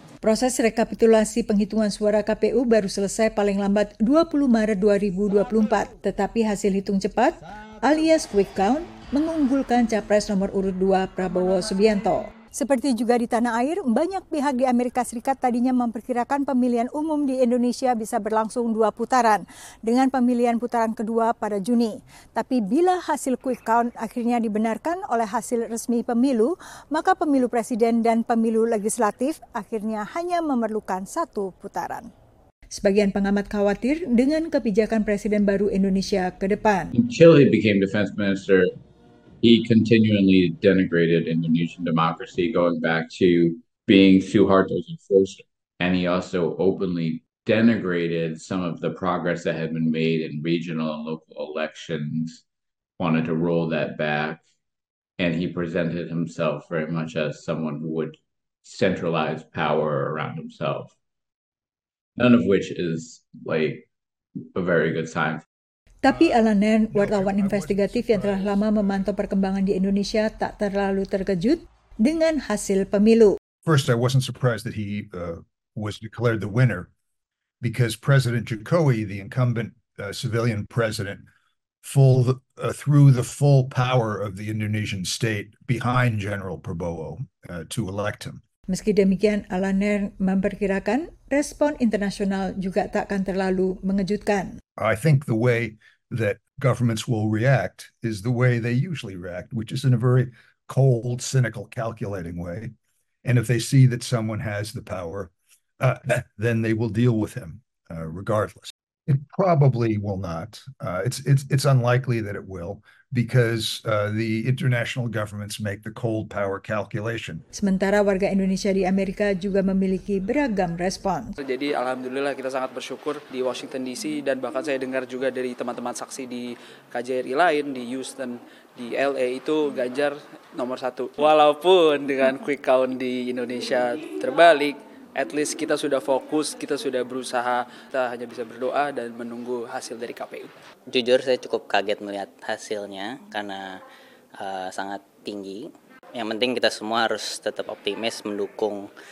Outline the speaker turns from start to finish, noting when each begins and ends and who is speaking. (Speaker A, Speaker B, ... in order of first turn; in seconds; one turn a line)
Speaker A: 0.2-32.1
Speaker A: 32.7-36.9
Speaker B: 36.9-38.7
Speaker B: 39.4-52.4
Speaker B: 53.0-54.4
Speaker B: 55.2-60.9
Speaker B: 62.2-63.9
Speaker B: 64.5-65.5
Speaker A: 66.0-73.4
Speaker C: 66.1-69.1
Speaker C: 73.7-76.9
Speaker C: 77.6-81.2
Speaker C: 81.8-88.4
Speaker A: 88.7-94.6
Speaker C: 94.8-102.7
Speaker C: 103.2-117.5
Speaker A: 117.5-121.3
Speaker D: 121.4-140.5
Speaker E: 140.9-143.8
Speaker E: 144.4-148.9